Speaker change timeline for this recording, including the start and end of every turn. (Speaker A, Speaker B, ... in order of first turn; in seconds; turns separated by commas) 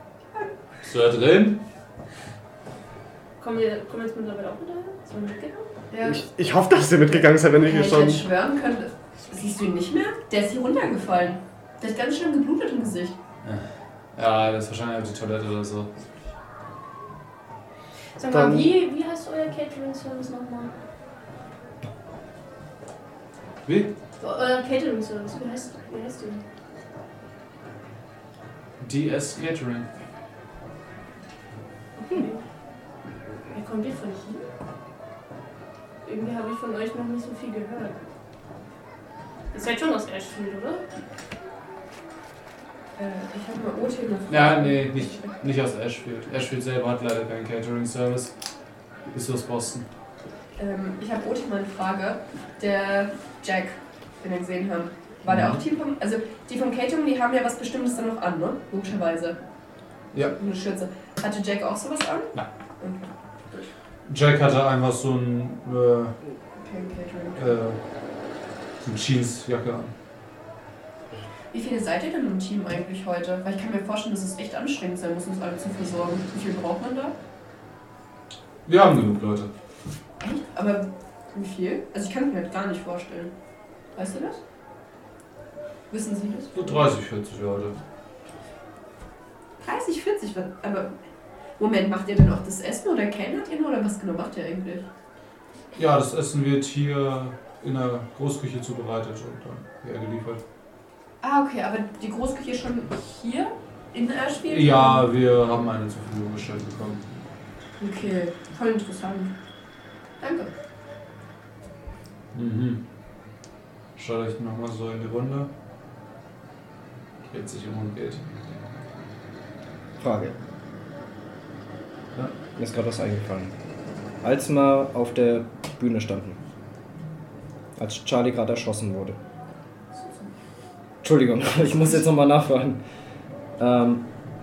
Speaker A: 0.8-1.6, Speaker B: 3.4-5.7, Speaker C: 5.9-6.2, Speaker D: 6.0-8.2, Speaker C: 7.6-13.2, Speaker A: 13.4-15.9, Speaker B: 18.2-20.7, Speaker D: 18.3-18.7, Speaker A: 23.6-23.9, Speaker B: 24.2-26.4, Speaker A: 28.8-29.9, Speaker B: 32.1-32.4, Speaker B: 33.5-34.4, Speaker B: 36.0-38.0, Speaker B: 39.5-40.8, Speaker C: 43.0-45.3, Speaker A: 44.3-48.3, Speaker A: 49.1-49.9, Speaker C: 50.6-59.4, Speaker A: 55.2-55.6, Speaker C: 60.2-63.7, Speaker A: 64.0-66.1, Speaker C: 66.6-67.5, Speaker A: 67.4-67.8, Speaker A: 68.8-69.9, Speaker C: 71.5-77.1, Speaker A: 78.7-79.5, Speaker C: 80.2-83.3, Speaker C: 83.9-84.4, Speaker C: 85.9-86.9, Speaker A: 86.5-87.8, Speaker C: 89.6-90.9, Speaker C: 91.6-94.9, Speaker A: 95.8-100.4, Speaker C: 101.2-105.1, Speaker A: 104.5-107.2, Speaker C: 107.8-109.3, Speaker C: 110.2-110.5, Speaker A: 112.3-112.8, Speaker A: 114.0-115.5, Speaker A: 117.2-118.2, Speaker E: 120.0-120.3, Speaker E: 122.5-123.5, Speaker E: 124.2-126.4, Speaker E: 127.8-129.2, Speaker C: 129.9-130.3, Speaker E: 131.0-132.8, Speaker E: 133.6-134.1